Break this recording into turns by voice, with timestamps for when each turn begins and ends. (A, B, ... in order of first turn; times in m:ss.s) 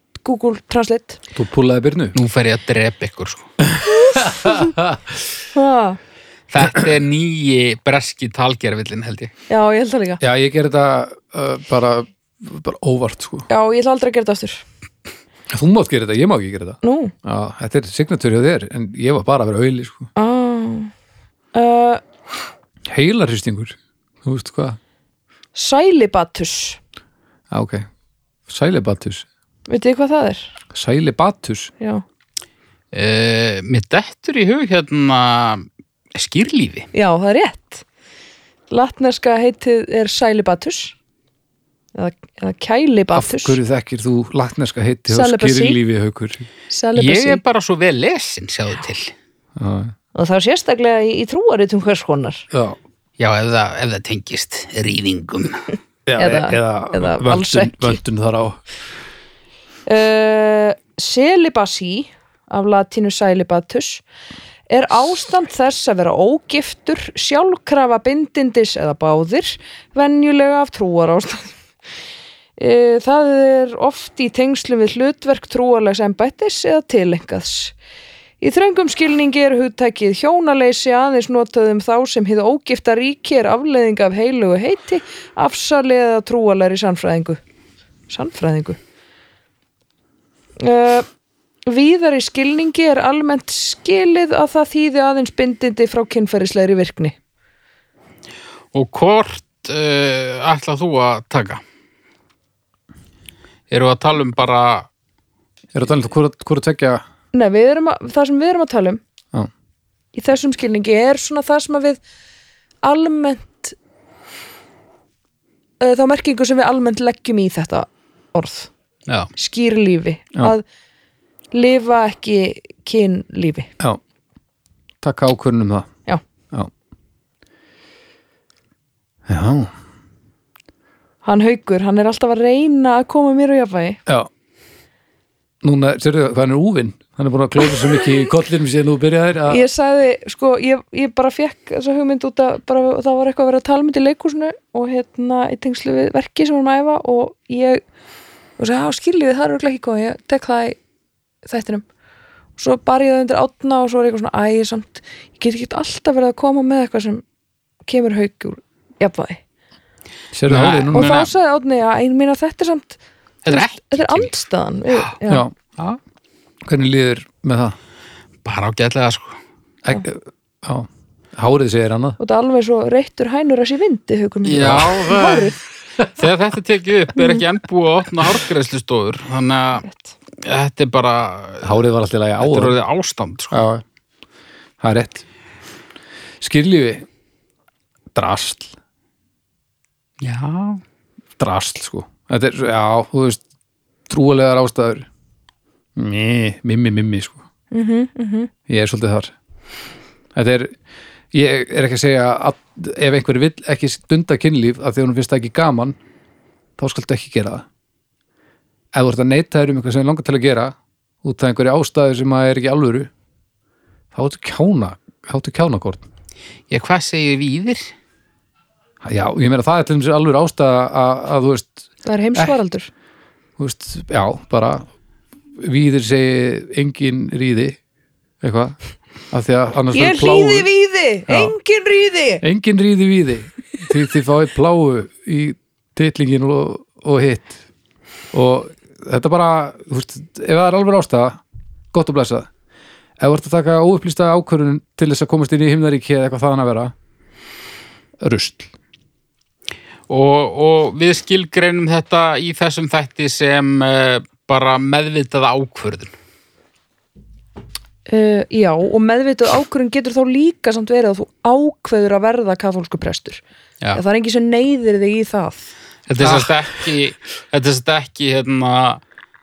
0:00.2-0:01.2 A
0:01.3-0:02.2 B
0:02.2-0:03.5 C
0:03.6-0:05.2 B
0:04.0-0:04.7 A
0:05.5-0:06.0 A
0:06.5-0:09.3 C
0:09.5-0:10.2 A
0:10.2-0:13.5 B
0:13.5-0:14.6 A
0:15.5-0:20.1 B
0:16.8-0:17.1 A
0:20.2-0:20.9 A
0:21.5-0:22.0 A
0:22.9-0:24.8 B
0:25.6-0:26.8 A
0:27.5-0:27.9 B
0:28.5-0:29.3 B
0:29.7-0:30.5 A
0:30.7-0:31.7 B
0:32.9-0:36.9 C
0:36.9-0:37.8 A
0:38.7-0:41.0 A
0:42.0-0:43.6 A
0:43.1-0:46.5 B
0:45.1-0:45.8 A
0:46.7-0:47.4 A
0:47.0-0:49.1 C
0:49.6-0:49.9 B
0:50.2-0:52.5 A
0:52.5-0:52.8 B
0:53.2-0:55.6 C
0:56.1-0:58.6 B
0:56.2-0:58.0 A
0:59.9-1:04.0 A
1:04.7-1:11.6 A
1:12.6-1:17.8 A
1:18.4-1:27.4 A
1:28.1-1:28.8 A
1:30.6-1:31.1 A
1:31.7-1:37.2 A
1:38.7-1:41.6 C
1:43.7-1:44.9 C
1:45.7-1:47.0 B
1:47.3-1:49.0 A
1:50.2-1:52.0 A
1:52.8-1:53.8 A
1:55.8-1:58.7 A
1:59.4-2:00.6 A
2:01.5-2:03.7 A
2:05.0-2:05.9 B
2:09.3-2:09.7 B
2:11.2-2:14.0 A
2:15.6-2:19.7 B
2:19.5-2:27.8 A
2:28.6-2:30.8 A
2:31.4-2:31.8 A
2:32.6-2:37.2 A
2:37.9-2:39.4 A
2:40.3-2:41.2 B
2:40.5-2:41.3 C
2:40.9-2:45.5 A
2:43.4-2:44.3 C
2:45.3-2:45.5 B
2:46.6-2:47.8 B
2:48.4-2:49.4 C
2:49.8-2:52.2 B
2:52.2-2:55.6 A
2:54.4-2:55.5 C
2:56.2-2:59.9 C
2:57.2-2:57.4 A
3:00.4-3:01.8 C
3:01.6-3:02.8 B
3:02.4-3:03.6 C
3:03.5-3:03.8 B
3:04.8-3:05.2 B
3:06.4-3:07.1 B
3:08.2-3:08.7 B
3:10.2-3:10.8 C
3:11.4-3:13.4 B
3:14.1-3:15.1 B
3:16.0-3:17.4 B
3:17.7-3:18.5 A
3:18.7-3:19.3 B
3:20.4-3:20.7 B
3:21.3-3:26.0 B
3:26.8-3:27.6 B
3:28.9-3:33.1 B
3:34.1-3:36.0 B
3:36.7-3:37.9 C
3:39.0-3:42.6 B
3:42.0-3:42.9 A
3:43.6-3:44.8 B
3:45.6-3:47.8 B
3:48.4-3:48.8 B
3:49.3-3:50.7 B
3:49.9-3:52.4 A
3:51.3-3:51.5 B
3:52.4-3:57.6 B
3:58.3-4:01.4 B
4:01.9-4:02.5 B
4:03.2-4:06.9 B
4:08.2-4:08.7 B
4:10.1-4:16.1 C
4:18.1-4:23.4 A
4:23.9-4:25.7 A
4:26.1-4:29.0 C
4:26.2-4:26.5 B